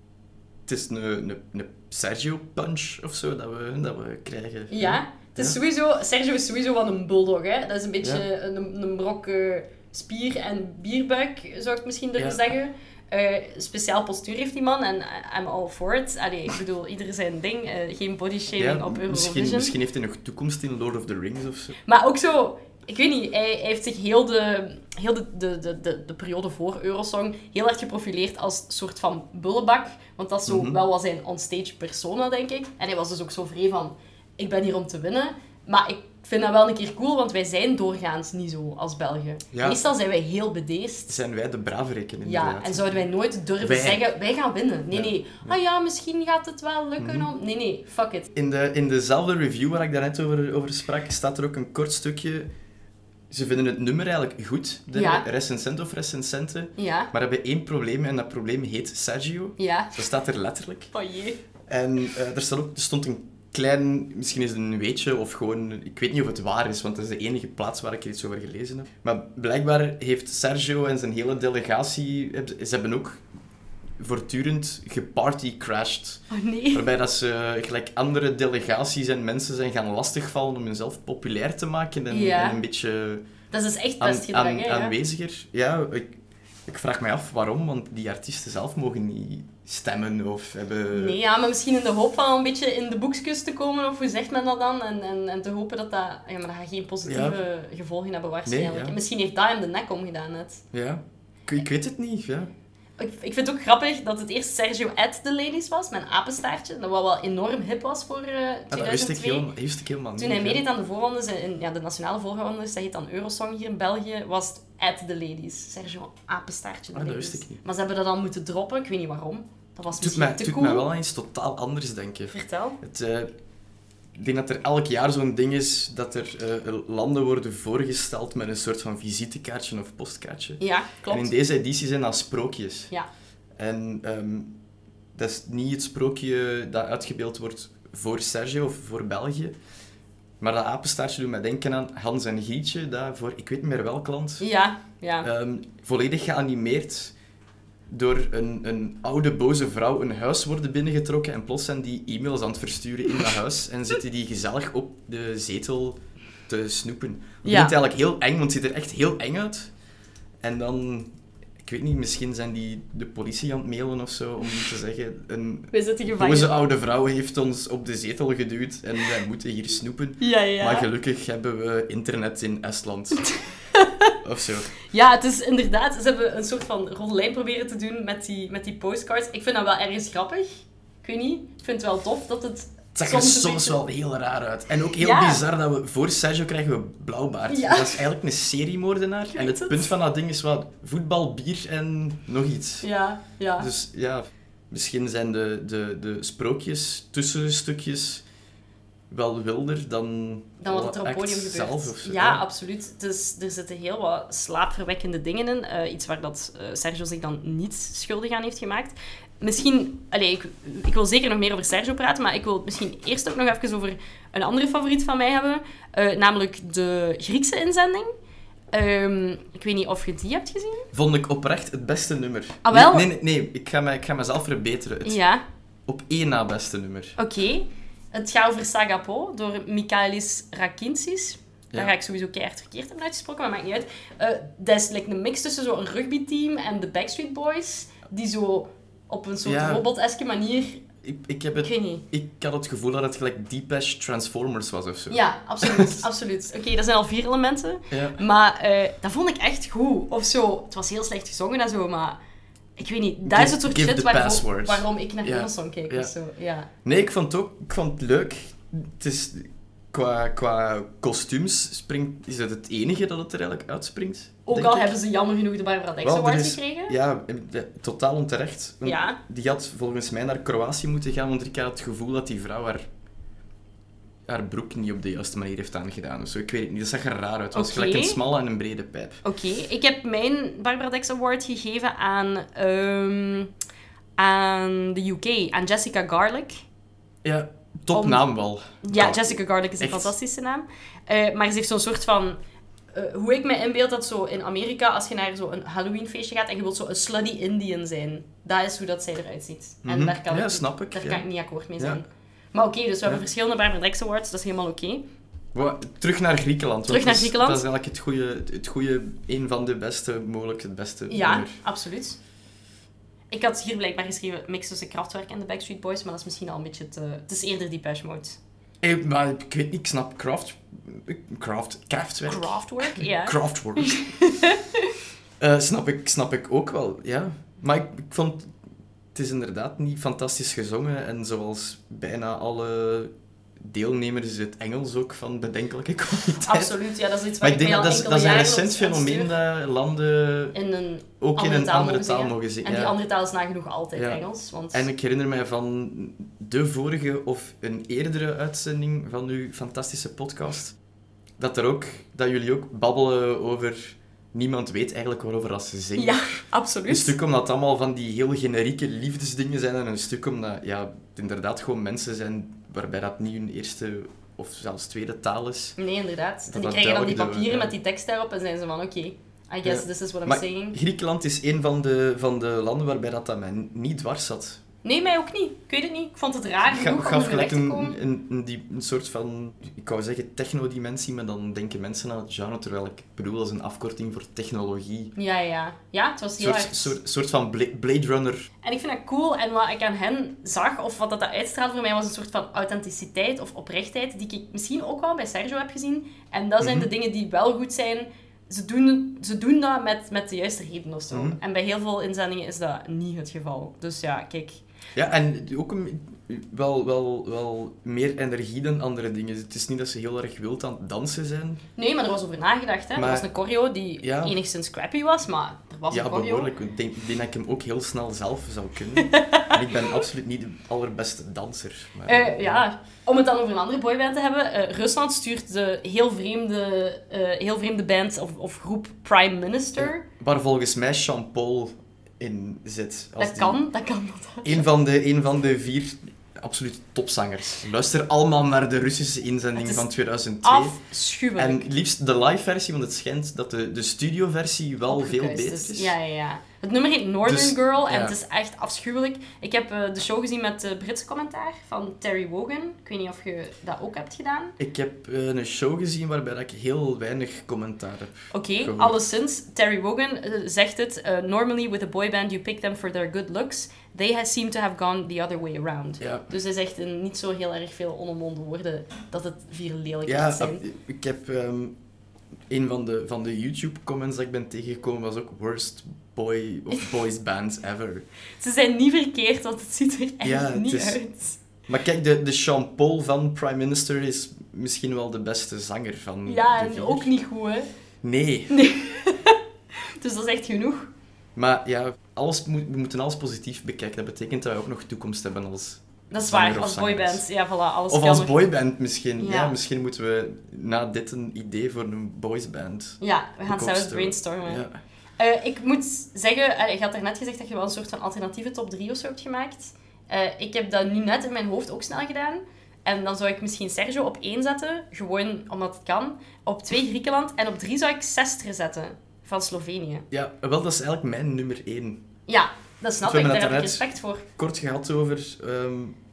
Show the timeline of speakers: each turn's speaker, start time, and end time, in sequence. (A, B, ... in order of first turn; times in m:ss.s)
0:00.7-0:05.6 A
0:04.7-0:19.7 B
0:18.6-0:21.8 A
0:21.9-0:41.2 B
0:30.5-0:30.8 A
0:39.5-0:39.8 A
0:41.1-0:43.0 A
0:42.2-0:48.3 B
0:43.6-0:44.0 A
0:44.9-0:45.6 A
0:47.0-0:47.3 A
0:48.3-0:52.5 A
0:53.3-1:00.9 A
0:54.9-0:55.3 B
0:56.8-0:57.1 B
0:59.6-1:00.0 B
1:00.9-1:01.4 B
1:01.7-1:13.2 A
1:14.0-1:23.2 A
1:16.3-1:16.9 B
1:22.1-1:22.6 B
1:23.5-1:25.0 B
1:24.0-1:31.2 A
1:30.9-1:40.6 B
1:37.1-1:37.4 A
1:38.5-1:39.0 A
1:40.7-1:42.5 A
1:43.0-1:49.5 B
1:48.7-1:50.6 A
1:50.2-2:00.9 B
1:56.9-1:57.6 A
2:00.0-2:03.3 A
2:02.3-2:02.8 B
2:04.2-2:12.9 A
2:10.6-2:11.3 B
2:13.6-2:14.5 A
2:15.2-2:19.6 A
2:20.4-2:24.5 A
2:24.4-2:25.3 B
2:25.2-2:27.1 A
2:27.9-2:39.7 A
2:37.4-2:37.7 B
2:40.4-2:53.3 A
2:45.7-2:46.6 B
2:50.2-2:50.9 B
2:53.7-2:54.1 B
2:54.2-2:54.7 A
2:54.9-3:03.8 B
3:03.0-3:12.9 A
3:05.0-3:05.4 B
3:07.5-3:08.0 B
3:09.3-3:09.9 B
3:12.8-3:13.7 B
3:13.6-3:18.2 A
3:19.1-3:22.4 A
3:20.6-3:38.1 B
3:38.7-3:40.9 B
3:40.9-3:45.2 A
3:42.6-3:43.1 B
3:45.0-3:45.4 B
3:45.9-3:47.2 A
3:47.2-4:00.8 B
3:59.4-3:59.8 A
4:01.0-4:06.0 A
4:01.6-4:02.0 B
4:05.1-4:12.2 B
4:07.9-4:08.2 A
4:12.8-4:16.7 B
4:13.2-4:16.1 A
4:16.8-4:25.0 A
4:24.5-4:27.0 B
4:26.0-4:32.9 A
4:28.8-4:29.2 B
4:34.3-4:39.2 A
4:37.5-4:38.2 B
4:39.2-4:43.5 B
4:44.2-4:46.6 B
4:47.2-4:50.1 A
4:47.9-4:48.2 B
4:48.8-4:52.4 B
4:52.9-5:05.1 B
4:59.8-5:01.2 A
5:05.6-5:11.6 A
5:06.9-5:07.6 B
5:11.1-5:12.2 B
5:13.3-5:18.4 B
5:18.8-5:24.1 A
5:22.3-5:24.9 B
5:25.4-5:28.5 A
5:29.2-5:36.8 A
5:36.4-5:39.3 B
5:37.4-5:40.6 A
5:40.5-5:44.9 B
5:41.2-5:43.0 A
5:44.0-5:50.8 A
5:51.4-6:05.8 A
5:56.0-5:57.1 B
6:05.8-6:10.8 B
6:06.5-6:07.7 A
6:09.6-6:14.6 A
6:14.8-6:18.0 B
6:16.7-6:25.2 A
6:25.2-6:27.0 B
6:26.4-6:28.5 A
6:28.6-6:44.6 B
6:36.6-6:36.9 A
6:41.1-6:41.4 A
6:45.0-6:51.6 A
6:51.8-6:56.5 B
6:53.0-6:53.3 A
6:54.0-6:54.4 A
6:55.9-7:02.6 A
6:59.0-6:59.6 B
7:02.1-7:10.0 B
7:09.8-7:13.6 A
7:13.2-7:14.7 B
7:14.4-7:20.8 A
7:19.6-7:19.9 B
7:20.4-7:21.7 B
7:21.4-7:26.0 A
7:24.9-7:34.6 B
7:27.2-7:28.2 A
7:34.6-7:39.0 A
7:38.3-7:50.6 B
7:46.0-7:46.3 A
7:50.1-7:51.8 A
7:52.5-7:58.1 A
7:58.4-8:01.4 B
8:00.2-8:01.0 A
8:01.7-8:07.1 A
8:06.3-8:07.7 B
8:08.0-8:08.6 A
8:08.5-8:09.4 B
8:10.0-8:10.9 B
8:11.4-8:17.2 A
8:16.1-8:18.4 B
8:17.9-8:24.8 A
8:19.2-8:19.6 B
8:23.0-8:24.6 B
8:25.2-8:40.1 B
8:40.1-8:42.1 A
8:42.3-8:44.2 B
8:43.0-8:43.8 A
8:44.3-8:46.0 A